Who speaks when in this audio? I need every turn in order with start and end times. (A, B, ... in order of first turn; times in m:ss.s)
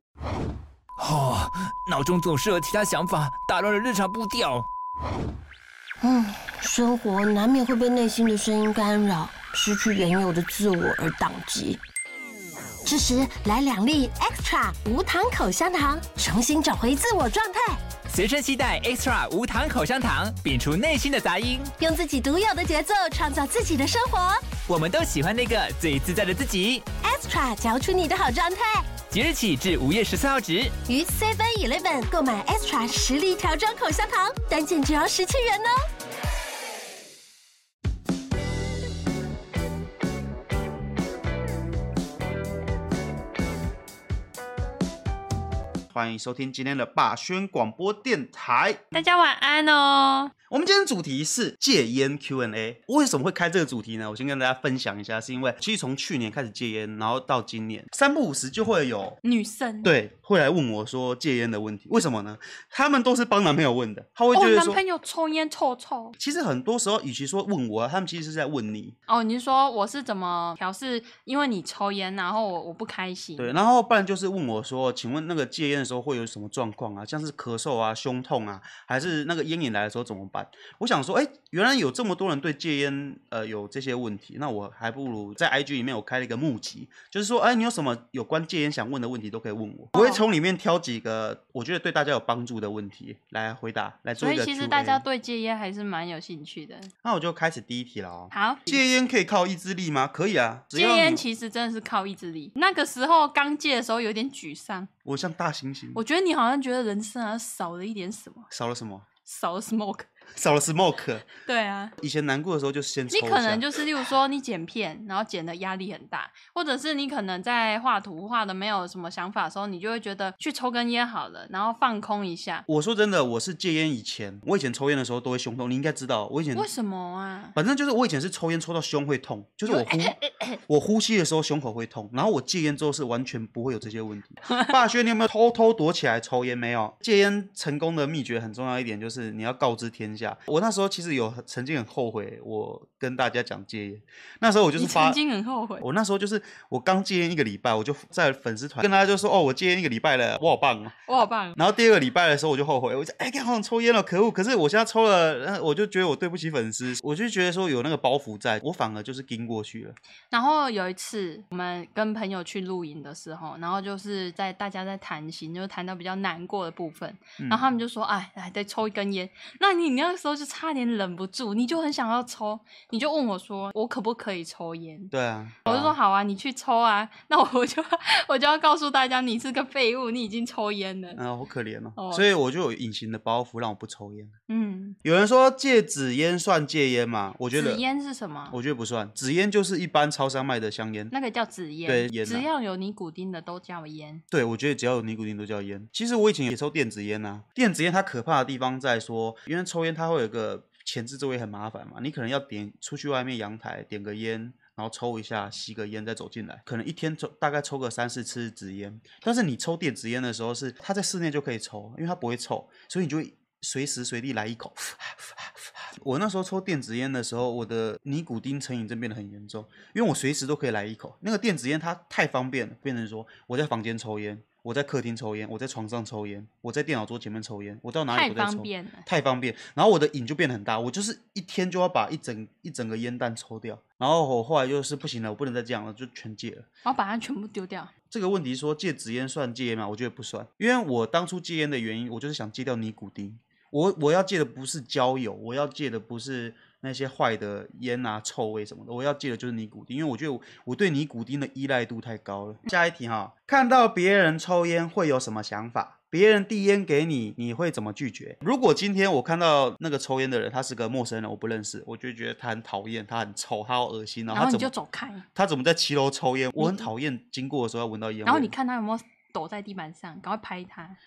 0:01.0-0:04.7 A
0:06.0-0:11.8 B
0:12.8-0:17.9 B
0:18.1-0:21.7 A
0:21.8-0:24.5 B
0:24.7-0:26.9 A
0:27.0-0:28.9 B
0:29.1-0:30.8 A
0:30.9-0:35.8 B
0:45.9-0:49.0 C
0:48.9-0:50.3 D
0:50.5-0:59.2 C
0:59.2-0:59.9 D
0:59.8-1:04.8 C
1:04.3-1:06.2 D
1:06.2-1:09.0 C
1:09.1-1:13.5 D
1:13.4-1:35.0 C
1:29.9-1:30.2 D
1:34.2-1:36.9 D
1:37.0-1:41.2 C
1:38.3-1:38.8 D
1:40.7-1:44.9 D
1:45.0-1:46.0 C
1:46.0-1:48.5 D
1:48.5-1:49.1 C
1:49.2-1:50.1 D
1:50.3-1:51.3 C
1:51.4-1:52.0 D
1:52.0-1:53.7 C
1:53.1-2:02.6 D
2:02.7-2:06.7 C
2:06.5-2:07.6 D
2:07.6-2:25.2 C
2:09.7-2:10.6 D
2:24.8-2:25.8 D
2:25.8-2:31.0 C
2:31.1-2:31.6 D
2:31.6-2:40.0 C
2:40.3-2:55.1 D
2:47.4-2:47.6 C
2:55.1-2:55.9 C
2:55.6-3:01.2 D
3:01.2-3:04.4 C
3:02.0-3:02.2 D
3:04.5-3:05.0 D
3:05.0-3:07.8 C
3:07.5-3:08.6 D
3:08.5-3:11.1 C
3:11.1-3:14.2 D
3:11.9-3:12.5 C
3:14.3-3:56.7 C
3:48.1-3:49.0 D
3:56.8-3:57.9 D
3:58.1-4:24.7 C
4:24.3-4:25.2 D
4:25.4-4:28.5 C
4:26.6-4:26.9 D
4:28.3-4:31.0 D